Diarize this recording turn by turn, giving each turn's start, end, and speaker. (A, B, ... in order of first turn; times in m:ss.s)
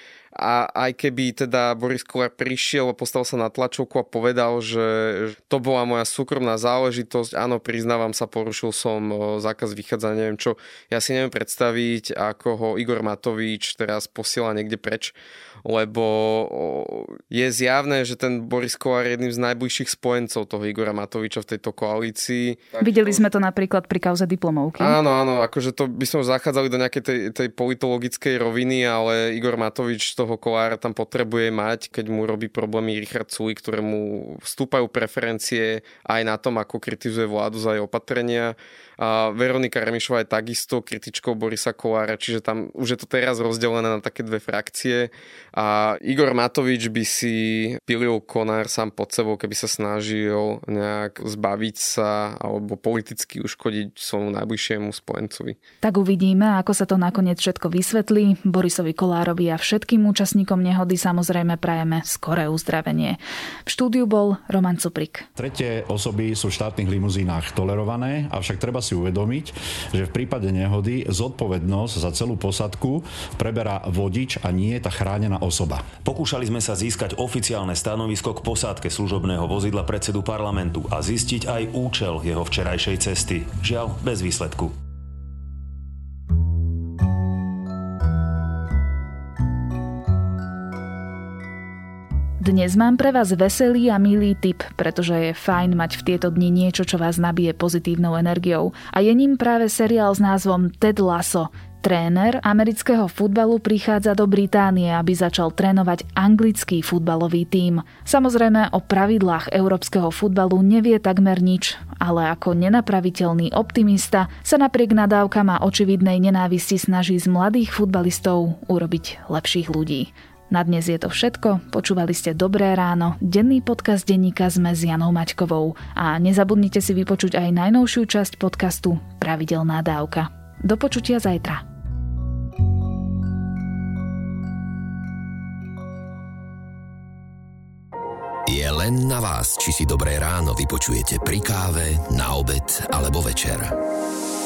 0:00.3-0:23.2 A
0:22.8-0:25.0 B
0:24.8-0:55.6 A
0:55.8-1:05.3 B
1:05.4-1:15.8 C
1:16.0-1:24.7 D
1:32.4-2:11.6 B
2:18.5-2:23.8 E